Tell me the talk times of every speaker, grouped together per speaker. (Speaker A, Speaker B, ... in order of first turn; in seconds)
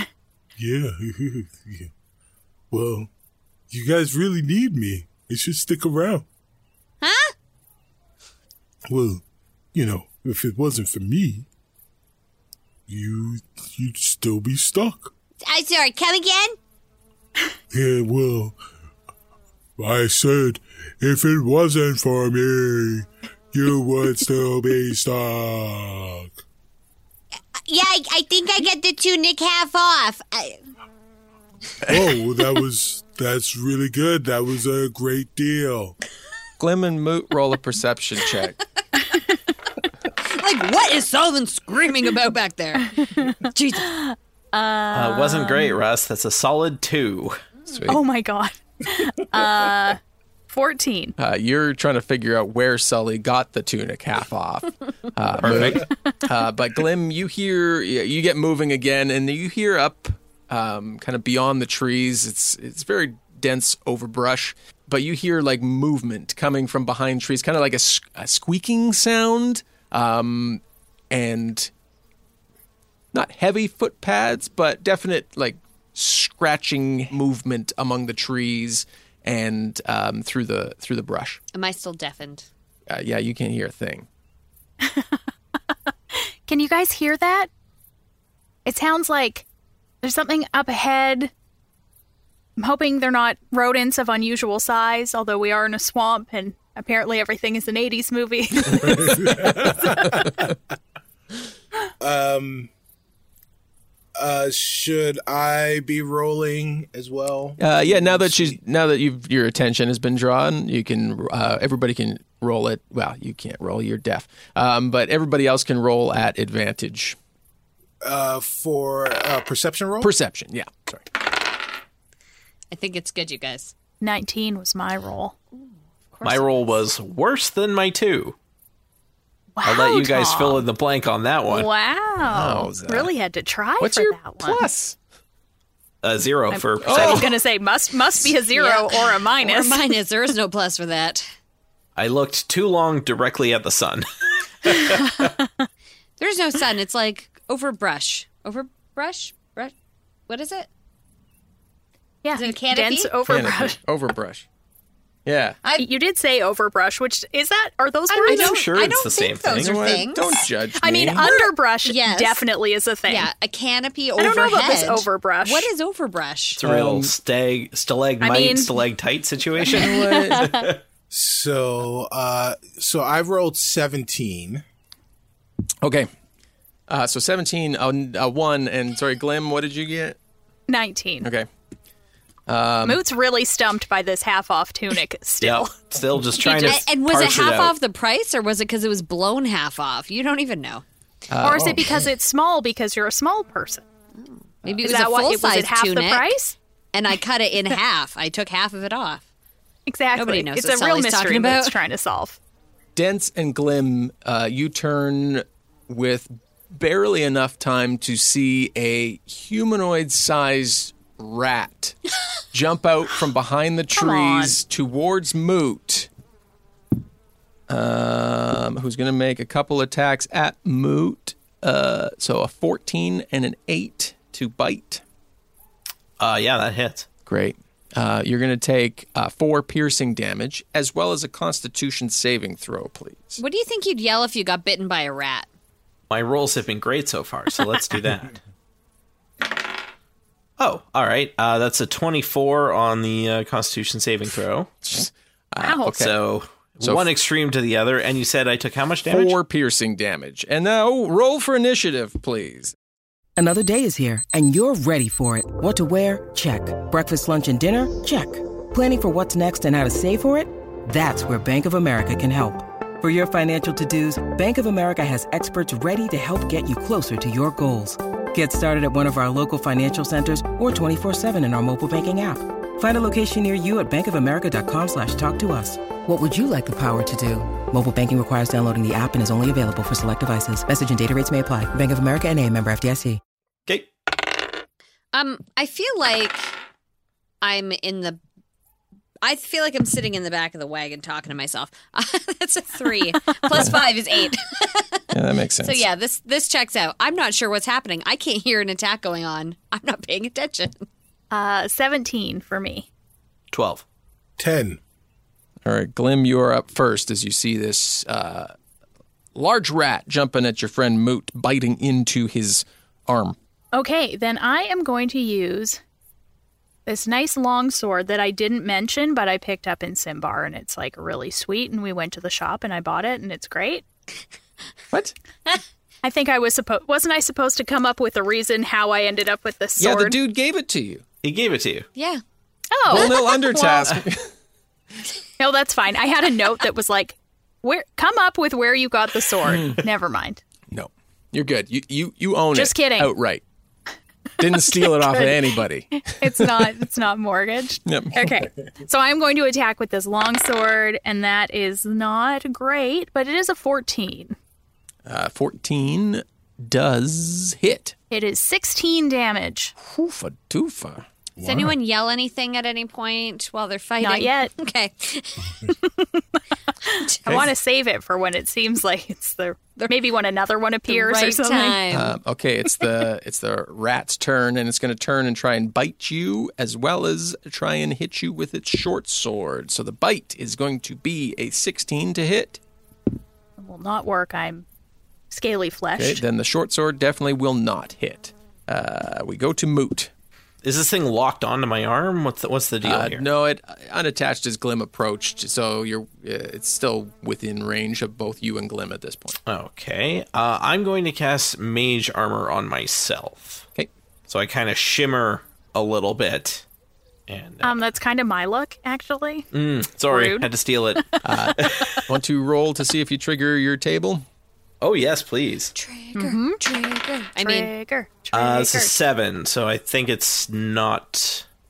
Speaker A: 0.6-1.9, 2.7-3.1, 3.7-6.2, 8.9-9.2, 9.7-11.5, 12.9-15.1, 17.7-18.6, 19.8-26.3, 31.8-36.0
Speaker B: 7.0-7.3, 15.4-16.6, 27.7-30.6, 40.2-43.9, 81.5-82.5, 122.7-123.7, 125.5-126.8, 138.5-141.3, 146.2-149.7, 150.3-150.7, 152.3-153.1, 155.6-155.9, 158.1-160.4, 161.2-162.4, 163.1-166.6, 186.4-190.8, 194.2-196.4, 196.9-199.2, 200.1-201.8, 233.4-235.5, 285.1-286.5, 287.4-288.2, 289.2-295.0, 295.6-300.8, 331.9-332.2, 361.4-365.7, 367.1-367.4, 370.9-372.1, 415.7-417.7
Speaker C: 36.6-38.6, 47.7-48.0, 51.2-71.7, 73.1-81.4, 82.9-84.0, 107.6-117.2, 120.0-121.0, 132.2-133.1, 133.8-134.9, 136.8-137.3, 153.2-154.4, 155.2-155.6, 159.6-161.3, 166.6-167.1, 169.7-170.5, 175.8-176.1, 176.9-180.2, 181.2-181.5, 182.5-183.0, 191.3-192.1, 202.9-211.9, 212.5-216.1, 217.7-225.0, 227.2-233.4, 244.8-246.2, 246.8-247.1, 249.1-252.7, 295.1-295.8, 305.6-308.5, 309.3-313.4, 329.8-331.0, 332.9-334.3, 339.5-339.8, 340.7-343.4, 344.4-346.7, 347.9-348.3, 355.1-357.9, 359.8-361.0, 371.9-382.6, 386.0-390.1, 392.8-399.4, 411.2-414.2
Speaker D: 43.0-45.8, 47.9-51.1, 84.8-85.2, 86.1-87.5, 88.7-89.5, 90.0-91.3, 92.6-99.8, 124.0-125.3, 129.6-130.7, 131.5-134.6, 136.5-139.9, 152.2-153.8, 155.8-158.7, 160.8-163.3, 164.2-165.7, 168.2-168.8, 169.8-170.8, 180.7-181.3, 182.8-185.9, 191.4-193.8, 194.7-196.5, 199.9-202.4, 213.9-214.5, 245.6-245.9, 301.3-302.9, 313.7-315.8, 316.9-323.8, 326.0-330.2, 332.7-334.0, 335.4-340.4, 342.5-343.1, 344.4-354.3, 358.1-359.7, 364.0-364.5, 366.9-371.8, 383.6-384.6, 385.3-386.2, 407.6-409.5, 410.1-410.5, 416.1-416.6, 417.4-418.9
Speaker E: 44.9-47.4, 55.4-55.8, 126.2-128.3, 129.6-131.7, 136.0-137.4, 141.9-144.1, 144.6-145.1, 158.2-159.9, 166.6-170.8, 185.4-187.7, 226.2-227.1, 236.1-238.4, 240.6-244.7, 245.9-249.4, 303.5-303.8, 331.2-331.9, 390.6-393.2, 399.4-403.6, 404.3-406.6, 407.3-407.7, 409.5-411.0, 411.6-412.0, 414.8-415.7, 418.3-421.4
Speaker F: 99.4-100.2, 102.0-102.7, 104.2-108.6, 118.0-120.1, 171.1-174.6, 304.4-304.8, 361.4-361.7
Speaker G: 253.4-283.2